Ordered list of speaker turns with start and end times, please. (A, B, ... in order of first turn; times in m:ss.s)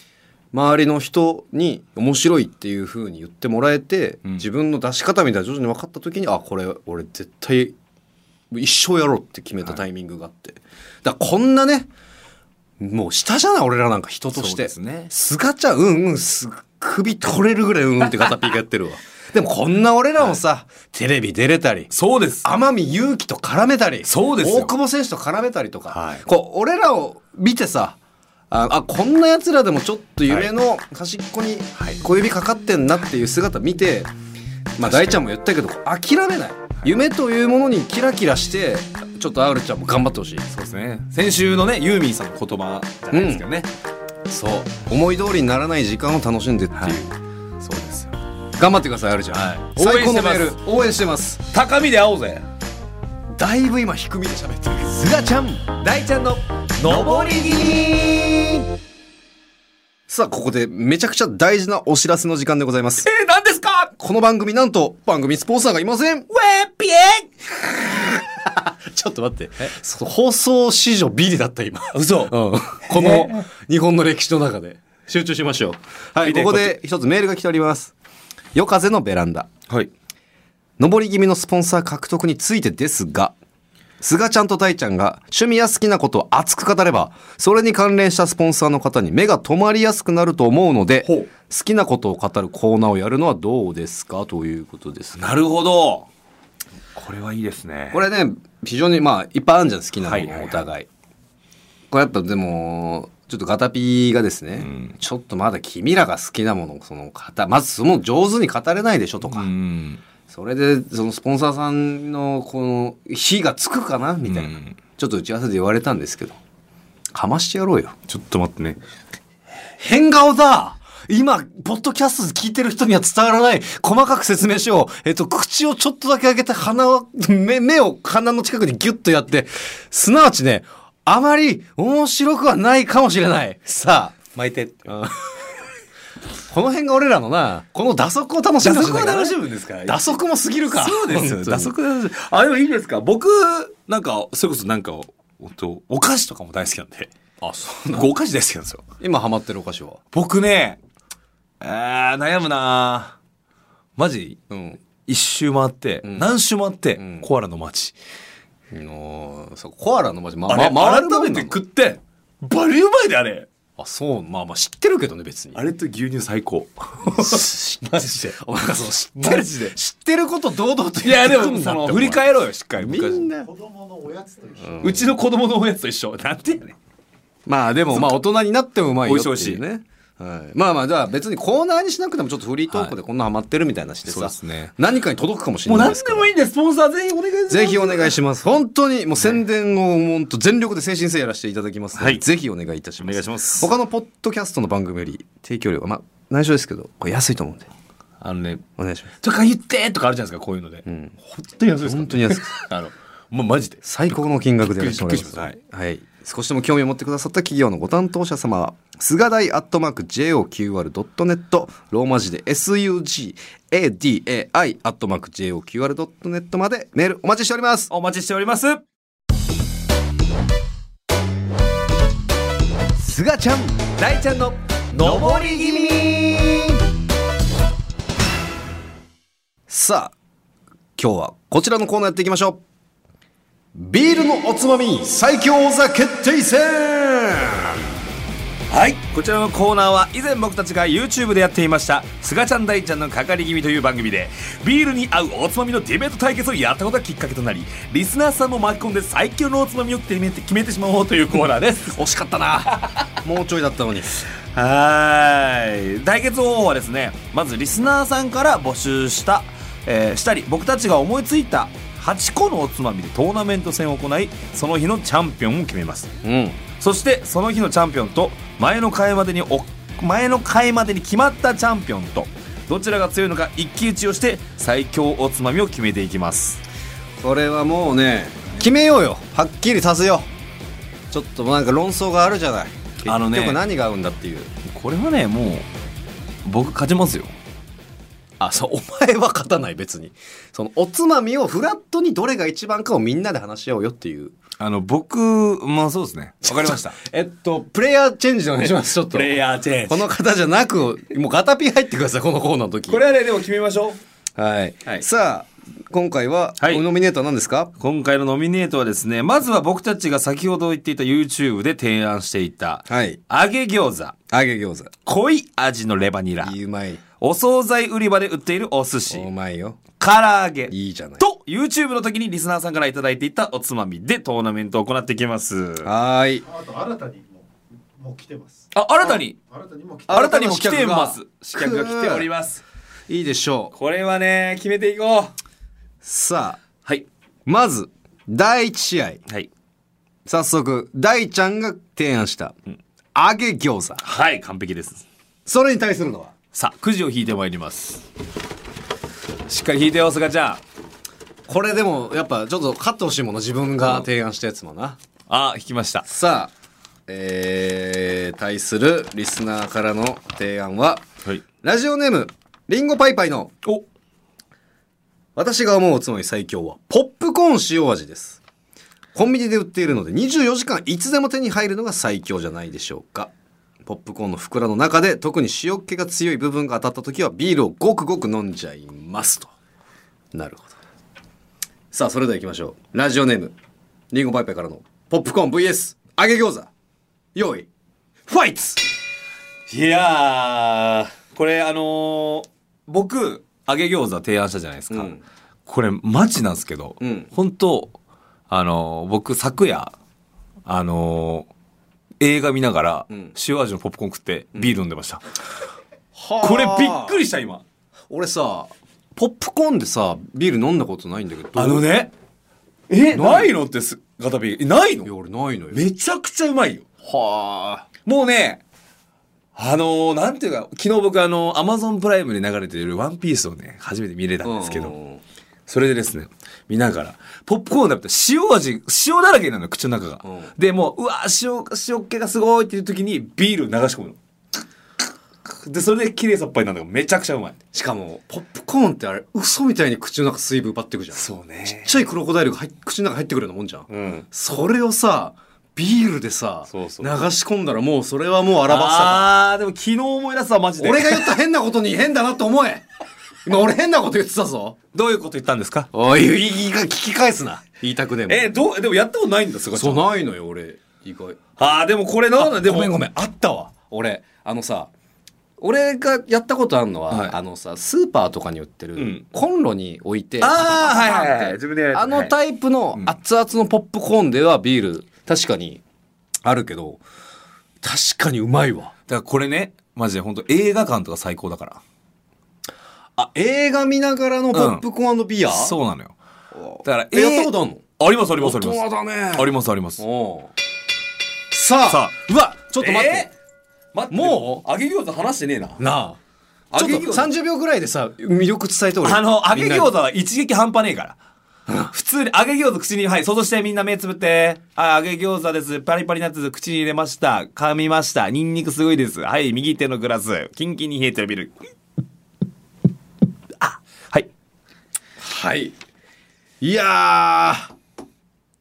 0:00.5-0:07.7 A
0:08.5-0:11.9 A
0:12.8-0:21.9 A
0:14.3-0:15.1 B
0:21.9-0:22.4 B
0:22.4-0:28.0 A
0:24.0-0:24.7 B
0:25.9-0:26.2 B
0:28.5-0:34.1 A
0:34.8-0:40.5 A
0:34.8-0:35.2 B
0:40.5-0:43.7 B
0:43.1-0:43.4 A
0:44.3-0:47.1 A
0:47.6-0:48.1 B
0:48.6-0:51.4 A
0:49.3-0:50.7 B
0:51.5-0:52.5 B
0:53.4-0:55.8 A
0:55.8-0:58.6 B
1:00.1-1:03.1 A
1:03.0-1:03.9 B
1:04.0-1:06.3 A
1:06.3-1:08.0 B
1:08.4-1:17.9 A
1:11.9-1:13.4 B
1:16.2-1:16.8 B
1:18.5-1:19.5 A
1:20.8-1:23.3 A
1:24.0-1:35.3 A
1:35.2-1:36.1 B
1:36.9-1:38.0 B
1:37.9-1:40.9 A
1:40.0-1:40.6 B
1:41.9-1:49.5 A
1:44.6-1:44.9 B
1:49.2-1:50.0 B
1:50.3-1:56.4 A
1:54.2-1:54.8 B
1:57.1-1:57.9 A
1:58.1-1:58.8 B
1:59.8-2:14.2 A
2:14.3-2:15.0 B
2:14.9-2:15.2 A
2:16.5-2:21.7 A
2:18.6-2:20.1 B
2:20.7-2:27.1 B
2:27.4-2:28.1 A
2:27.9-2:28.8 B
2:29.0-2:30.0 A
2:30.1-2:30.8 B
2:31.6-2:33.2 B
2:34.0-2:34.4 B
2:34.5-2:34.8 A
2:35.0-2:37.9 B
2:36.0-2:36.3 A
2:37.0-2:37.3 A
2:38.7-2:41.6 A
2:40.5-2:43.5 B
2:43.8-2:45.6 A
2:45.5-2:48.4 B
2:47.0-2:52.2 A
2:49.2-2:49.7 B
2:51.0-2:53.3 B
2:52.8-2:53.5 A
2:53.4-2:55.0 C
2:54.6-2:55.0 A
2:54.8-2:56.8 B
2:57.4-3:06.3 A
2:57.9-2:58.2 B
2:59.0-2:59.6 B
3:04.0-3:04.7 B
3:05.6-3:08.2 B
3:07.5-3:17.7 A
3:12.0-3:12.2 B
3:13.0-3:13.7 B
3:18.2-3:18.6 B
3:18.8-3:19.1 A
3:19.2-3:25.6 B
3:20.8-3:21.1 A
3:21.8-3:22.5 A
3:23.8-3:37.9 A
3:37.9-3:38.8 B
3:43.0-3:46.8 A
3:44.0-3:46.5 B
3:49.7-3:50.1 A
3:51.0-3:52.6 A
3:53.7-3:57.8 A
3:58.7-4:12.0 B
4:11.9-4:14.2 A
4:14.5-4:26.1 B
4:26.2-4:26.6 A
4:26.8-4:36.6 B
4:37.2-4:40.3 A
4:41.1-4:44.5 A
4:43.0-4:43.6 B
4:44.6-4:45.6 B
4:46.4-4:47.3 B
4:48.4-4:54.3 A
4:54.6-4:57.0 B
4:56.5-5:03.0 A
4:59.1-5:00.1 B
5:02.9-5:04.0 B
5:04.4-5:07.7 A
5:07.8-5:14.2 B
5:12.9-5:13.2 A
5:14.3-5:14.9 A
5:15.0-5:16.5 B
5:16.4-5:17.0 A
5:17.2-5:19.3 B
5:19.1-5:19.8 A
5:20.0-5:25.9 B
5:20.7-5:21.2 A
5:25.8-5:26.4 A
5:26.4-5:28.7 C
5:28.7-5:29.4 B
5:29.5-5:30.3 C
5:30.1-5:32.3 A
5:30.1-5:32.6 B
5:33.1-5:33.7 A
5:33.7-5:35.3 B
5:36.0-5:36.6 A
5:37.4-5:39.2 A
5:40.2-5:42.6 A
5:43.1-5:44.0 A
5:44.0-5:45.0 B
5:45.4-5:46.3 A
5:46.5-5:48.1 B
5:49.5-5:50.6 B
5:51.5-5:55.0 A
5:55.3-5:56.0 B
5:56.0-5:56.5 A
5:57.1-6:01.0 A
6:01.6-6:03.5 A
6:05.4-6:08.4 A
6:09.1-6:13.3 A
6:13.8-6:19.5 A
6:20.3-6:20.8 A
6:21.9-6:23.5 A
6:24.1-6:26.7 A
6:27.3-6:27.7 A
6:28.3-6:28.8 A
6:29.7-6:35.1 B
6:34.9-6:35.2 A
6:35.6-6:37.9 B
6:37.0-6:37.3 A
6:38.5-6:39.9 B
6:40.6-6:41.5 B
6:42.2-6:45.2 B
6:46.1-6:47.2 A
6:46.4-6:47.6 B
6:48.1-6:51.8 A
6:51.5-6:52.1 B
6:52.9-6:55.1 B
6:53.1-6:53.5 A
6:55.0-6:55.8 A
6:55.7-6:56.9 B
6:57.0-6:57.9 A
6:58.0-6:58.6 B
6:59.5-7:04.9 B
7:04.4-7:05.2 A
7:05.7-7:14.2 B
7:10.2-7:10.5 A
7:15.4-7:17.6 B
7:17.7-7:29.3 A
7:21.1-7:22.0 B
7:23.9-7:24.2 B
7:26.7-7:27.2 B
7:28.7-7:31.4 B
7:30.8-7:32.8 A
7:33.4-7:34.8 A
7:34.9-7:35.9 B
7:35.9-7:38.5 A
7:38.3-7:40.1 B
7:39.7-7:41.5 A
7:41.6-7:42.9 B
7:42.4-7:44.9 A
7:45.6-7:55.8 A
7:47.1-7:47.4 B
7:49.0-7:49.2 B
7:50.4-7:52.3 B
7:56.4-7:57.0 A
7:57.8-7:58.9 A
7:59.1-8:01.8 B
8:03.2-8:05.8 A
8:04.5-8:04.8 B
8:05.5-8:06.1 B
8:06.5-8:07.8 A
8:06.8-8:10.0 B
8:08.4-8:10.5 A
8:11.5-8:13.3 A
8:11.9-8:12.1 B
8:12.8-8:13.3 B
8:13.9-8:15.8 B
8:14.1-8:14.6 A
8:15.8-8:16.2 A
8:16.7-8:17.3 B
8:16.7-8:19.9 A
8:19.0-8:21.2 B
8:21.9-8:31.5 B
8:33.6-8:34.3 B
8:35.2-8:35.7 A
8:36.6-8:37.7 A